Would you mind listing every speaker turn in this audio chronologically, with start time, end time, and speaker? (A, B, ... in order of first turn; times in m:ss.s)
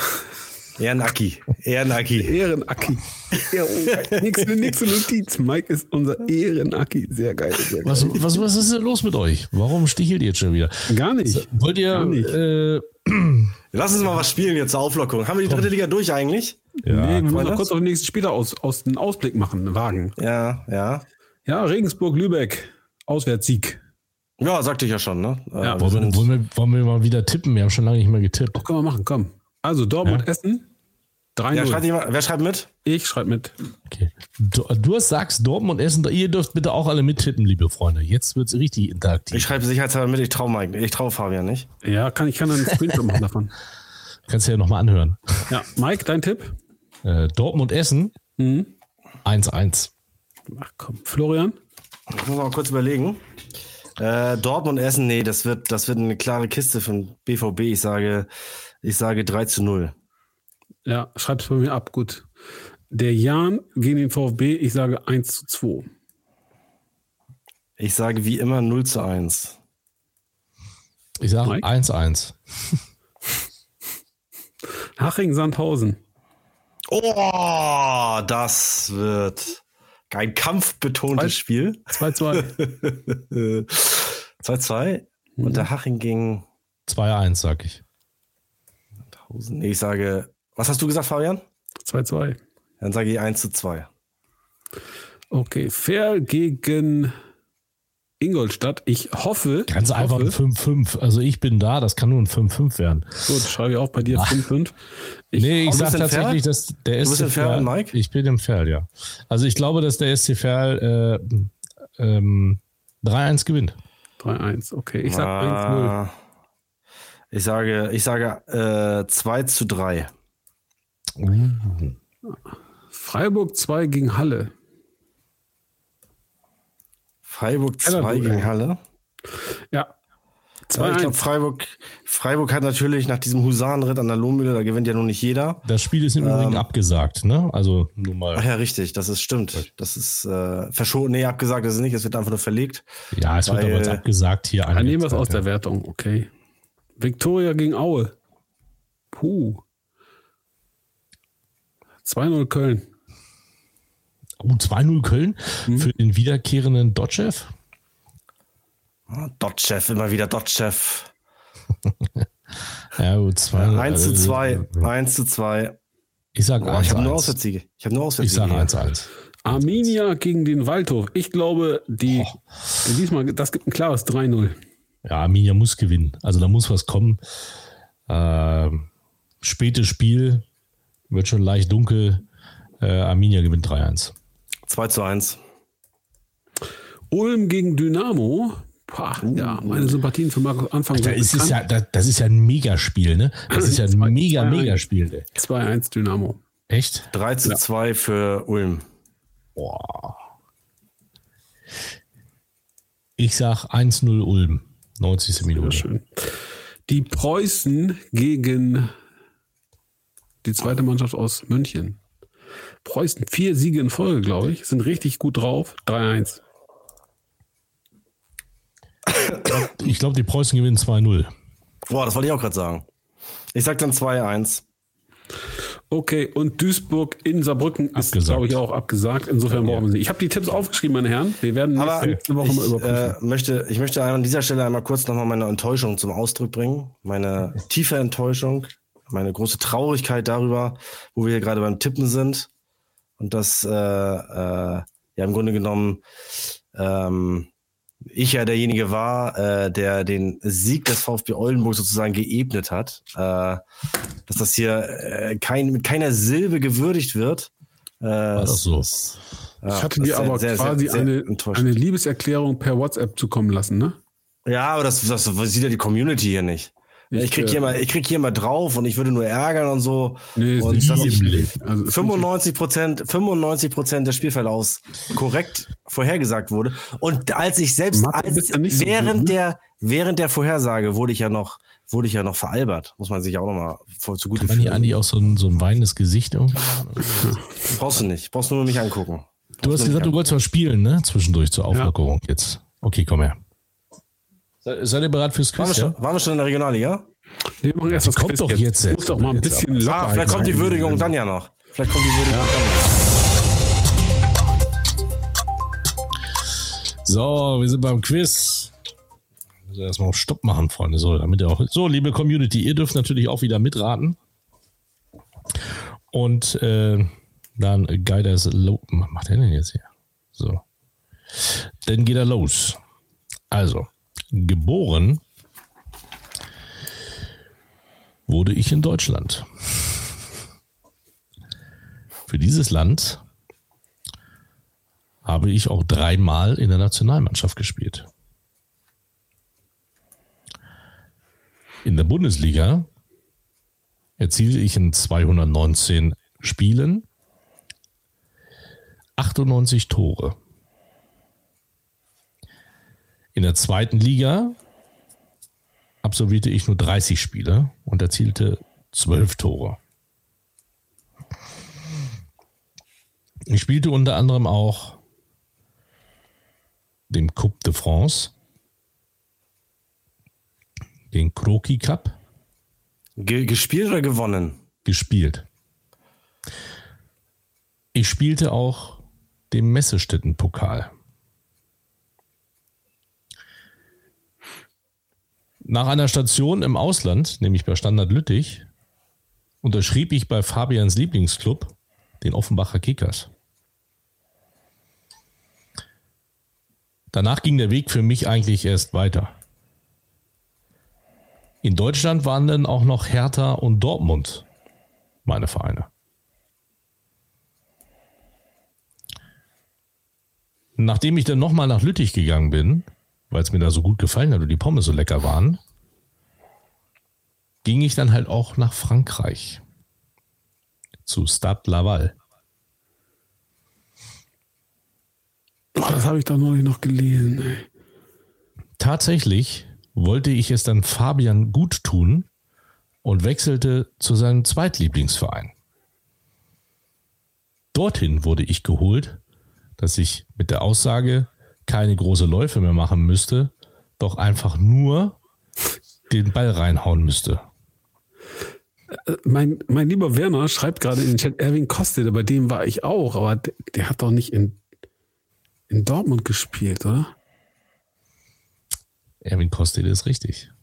0:00.8-0:02.4 A
0:02.2-0:08.4 B
0:03.9-0:04.7 A
0:07.8-0:13.6 C
0:10.9-0:12.4 B
0:13.7-0:16.7 A
0:16.8-0:17.3 C
0:16.9-0:20.2 B
0:17.3-0:17.7 A
0:20.2-0:21.1 A
0:21.5-0:23.8 B
0:24.4-0:26.3 A
0:25.8-0:28.6 C
0:28.6-0:30.7 B
0:31.4-0:31.8 B
0:31.5-0:32.7 A
0:32.8-0:33.5 B
0:33.9-0:39.5 C
0:39.3-0:41.7 A
0:41.8-0:43.5 B
0:44.3-0:45.5 C
0:45.5-0:46.5 B
0:47.0-0:48.2 C
0:48.4-0:48.7 B
0:49.2-0:49.9 C
0:50.5-0:51.6 B
0:52.1-0:53.2 A
0:54.0-0:58.3 A
0:58.8-0:59.9 A
1:00.9-1:02.3 B
1:02.9-1:05.9 B
1:07.8-1:09.6 A
1:11.2-1:12.8 C
1:15.0-1:16.0 B
1:16.9-1:26.5 A
1:21.9-1:22.5 B
1:25.4-1:25.7 B
1:26.9-1:27.8 C
1:29.2-1:31.4 A
1:31.9-1:32.4 B
1:32.8-1:33.9 A
1:35.3-1:37.1 B
1:38.2-1:40.4 B
1:39.7-1:43.2 C
1:43.3-1:44.8 B
1:44.1-1:44.4 C
1:45.3-1:45.8 B
1:45.4-1:53.8 C
1:45.7-1:46.4 A
1:47.0-1:48.0 A
1:54.2-1:56.0 B
1:55.0-1:56.1 A
1:57.3-2:00.1 A
2:01.2-2:02.0 C
2:02.9-2:04.5 B
2:07.3-2:08.8 A
2:07.8-2:08.5 B
2:10.7-2:11.2 B
2:10.8-2:15.6 A
2:15.6-2:18.4 C
2:16.2-2:16.7 A
2:18.4-2:22.9 A
2:23.1-2:25.4 C
2:23.4-2:24.0 A
2:24.7-2:26.3 B
2:27.0-2:28.2 B
2:29.1-2:29.6 B
2:32.0-2:32.9 B
2:34.4-2:37.5 C
2:39.1-2:41.1 A
2:43.0-2:44.9 C
2:43.6-2:45.8 A
2:46.4-2:47.4 C
2:46.6-2:48.7 A
2:48.2-2:49.9 C
2:49.4-2:54.6 B
2:55.0-2:57.2 C
2:58.1-2:58.9 C
2:59.4-3:00.4 C
3:01.1-3:02.2 C
3:02.8-3:04.1 C
3:04.7-3:05.4 A
3:07.1-3:11.6 B
3:09.2-3:10.0 A
3:10.9-3:15.3 C
3:13.5-3:14.8 B
3:15.4-3:16.4 B
3:16.7-3:17.1 C
3:17.1-3:18.9 A
3:19.6-3:20.2 C
3:23.2-3:25.9 C
3:25.6-3:26.3 B
3:26.9-3:28.9 B
3:30.4-3:32.0 B
3:32.8-3:36.4 B
3:39.1-3:39.4 A
3:39.4-3:41.3 C
3:41.9-3:42.9 A
3:43.5-3:44.6 A
3:45.9-3:53.2 B
3:48.0-3:48.5 C
3:49.5-3:49.9 C
3:51.8-4:02.5 A
4:03.2-4:06.0 A
4:06.7-4:07.5 A
4:08.1-4:13.6 A
4:14.3-4:21.8 A
4:18.4-4:18.9 C
4:19.7-4:24.0 B
4:24.5-4:44.9 A
4:27.1-4:27.8 B
4:30.4-4:32.3 B
4:30.7-4:31.5 C
4:37.9-4:39.4 B
4:44.4-4:47.4 C
4:47.7-4:50.1 A
4:49.6-4:53.4 C
4:54.6-4:56.0 C
4:55.6-4:57.1 A
4:57.6-5:01.1 B
4:57.9-5:00.6 C
4:59.9-5:02.9 A
5:07.0-5:08.7 C
5:09.7-5:14.2 C
5:16.1-5:20.6 C
5:21.4-5:22.8 C
5:23.5-5:25.2 C
5:28.3-5:30.0 C
5:32.3-5:33.2 C
5:35.2-5:38.1 C
5:41.8-5:42.9 C
5:44.2-5:47.1 C
5:49.2-5:50.4 C
5:53.4-5:54.6 C
5:56.0-5:59.8 C
6:03.5-6:05.0 C
6:07.1-6:08.3 C
6:11.1-6:12.2 C
6:13.2-6:14.6 A
6:14.8-6:15.5 C
6:18.0-6:20.9 C
6:25.6-6:28.7 C
6:29.6-6:33.3 C
6:37.1-6:39.3 C
6:41.6-6:44.5 C
6:45.3-6:45.9 C
6:50.8-6:55.6 C
6:57.6-6:59.6 C
7:01.1-7:02.2 C
7:05.8-7:07.7 B
7:08.8-7:12.3 C
7:13.0-7:15.5 C
7:17.7-7:19.2 C
7:19.8-7:25.2 C
7:26.1-7:27.4 C
7:29.1-7:34.6 B
7:35.7-7:37.1 B
7:39.2-7:40.5 C